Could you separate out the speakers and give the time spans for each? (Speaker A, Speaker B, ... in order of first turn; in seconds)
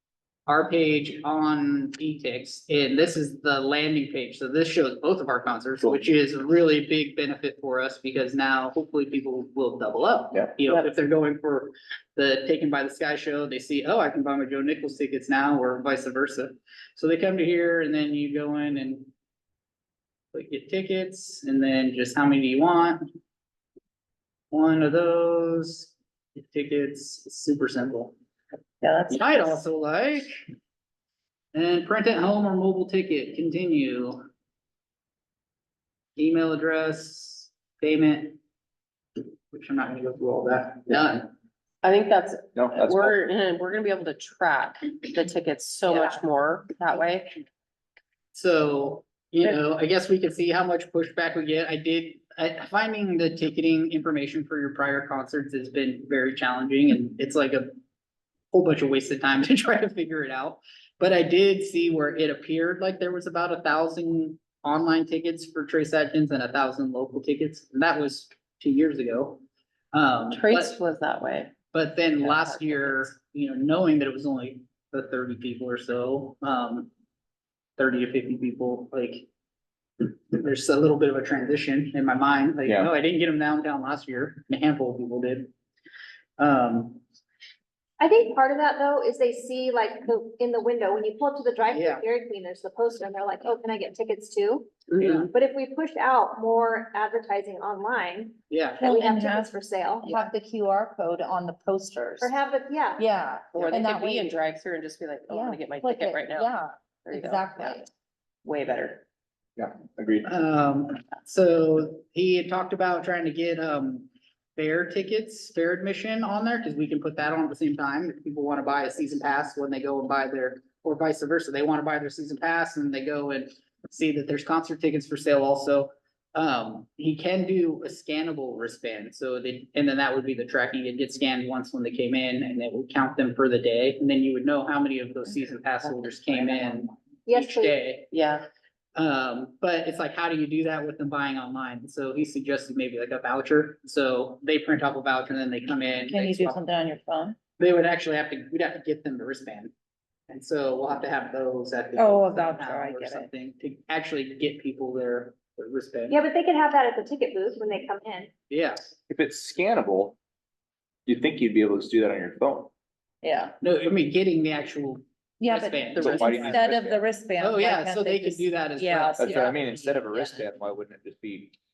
Speaker A: 0.5-19.1, 20.3-23.0, 24.5-28.1, 29.1-30.3, 31.5-34.2, 36.2-38.4, 39.5-41.3, 48.3-57.8, 58.5-69.4, 69.9-70.8, 71.7-76.9, 77.8-79.3, 80.0-85.5, 86.4-87.0, 91.7-92.0, 95.0-95.3, 98.5-98.9, 110.2-138.2, 138.9-146.6, 147.6-149.7, 150.3-156.2, 158.5-158.9, 163.6-166.6, 167.4-169.2
Speaker B: 28.8-29.6, 41.8-47.4, 70.3-71.5, 72.2-73.1, 94.9-95.3, 103.5-106.5, 107.0-107.9, 108.4-109.0, 138.1-138.4, 165.9-166.5
Speaker C: 42.5-43.2, 82.7-82.9, 109.6-110.3, 159.1-160.2, 161.1-162.7, 166.0-167.0, 169.2-171.6
Speaker D: 88.0-94.7, 95.3-100.2, 102.2-103.0, 137.3-137.8, 156.1-158.3
Speaker E: 98.8-102.3, 103.0-104.4, 105.3-107.9, 146.1-147.4, 152.0-153.3, 163.2-163.6, 165.4-170.4